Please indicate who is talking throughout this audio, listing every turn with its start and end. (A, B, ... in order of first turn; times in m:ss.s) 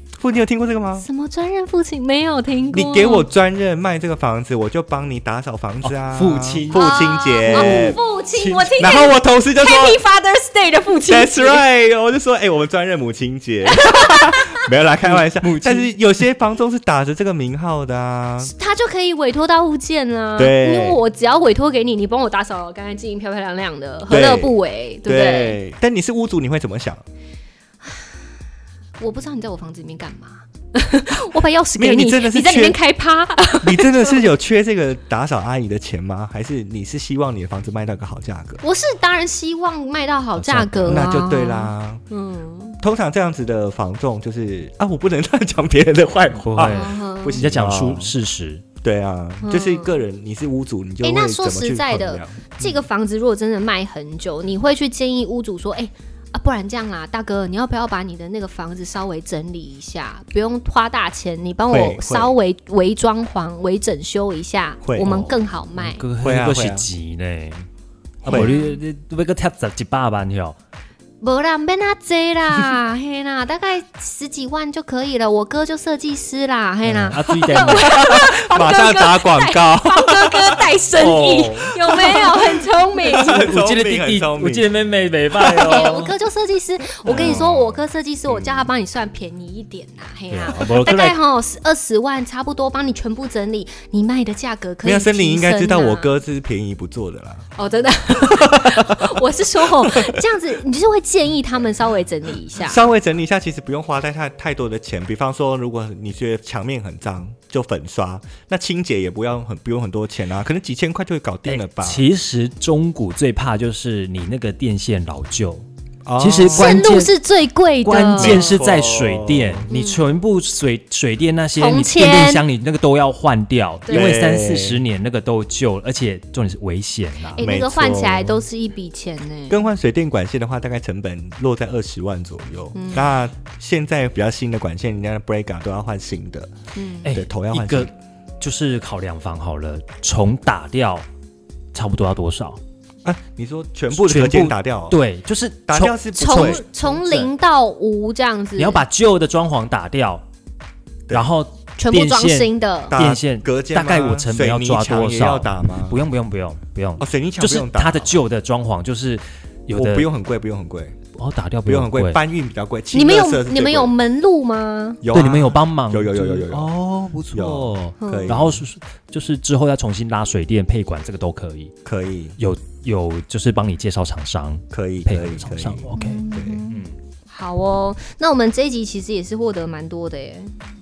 0:00.2-0:01.0 A
0:01.0-0:03.3 B
0:02.7-0:08.0 A
0:05.8-0:08.5 C
0:06.7-0:11.6 B
0:08.6-0:10.0 A
0:11.1-0:18.5 A
0:13.6-0:14.6 B
0:15.0-0:15.9 C
0:18.4-0:25.6 B
0:20.4-0:21.0 A
0:24.1-0:27.0 A
0:29.0-0:34.2 B
0:31.8-0:32.8 A
0:33.5-0:38.6 A
0:38.6-0:42.8 B
0:40.4-0:41.1 C
0:40.8-0:42.0 A
0:42.8-0:48.1 A
0:46.4-0:48.6 C
0:46.6-0:47.4 B
0:48.8-0:52.5 A
0:49.4-0:50.0 B
0:51.0-1:06.0 B
1:01.7-1:02.3 A
1:04.8-1:05.2 A
1:05.0-1:07.7 C
1:06.2-1:06.9 A
1:08.2-1:10.6 C
1:08.2-1:08.5 A
1:08.3-1:08.8 B
1:11.2-1:23.5 B
1:16.8-1:18.0 C
1:17.5-1:24.7 A
1:23.3-1:26.1 C
1:25.6-1:36.1 B
1:27.0-1:27.8 C
1:27.0-1:27.5 A
1:28.3-1:28.6 C
1:30.3-1:31.2 C
1:34.8-1:37.5 A
1:37.6-1:42.8 B
1:38.1-1:40.2 A
1:42.6-1:52.0 A
1:51.5-1:55.6 C
1:56.0-1:56.9 A
1:56.2-1:57.1 C
1:56.5-1:58.6 B
1:57.8-2:07.5 C
1:58.2-1:59.7 A
1:59.7-2:00.0 B
2:01.6-2:02.4 B
2:03.9-2:04.2 B
2:03.9-2:04.8 A
2:07.4-2:09.6 B
2:07.4-2:08.4 A
2:09.5-2:16.5 A
2:12.7-2:13.1 B
2:16.7-2:17.1 B
2:17.0-2:21.0 C
2:17.1-2:17.9 A
2:21.7-2:22.6 C
2:23.0-2:25.0 A
2:23.9-2:27.3 C
2:25.7-2:26.6 A
2:26.2-2:28.8 B
2:28.6-2:30.2 C
2:31.1-2:40.1 C
2:31.8-2:33.0 B
2:32.9-2:36.0 A
2:37.0-2:38.2 A
2:39.7-2:41.0 A
2:41.2-2:42.2 C
2:41.6-2:43.9 A
2:42.9-2:45.0 B
2:45.0-2:46.7 A
2:45.1-2:51.7 C
2:47.3-2:48.6 A
2:48.0-2:48.4 B
2:51.8-2:52.4 A
2:52.4-2:56.9 C
2:54.7-2:56.6 A
2:55.9-3:00.5 B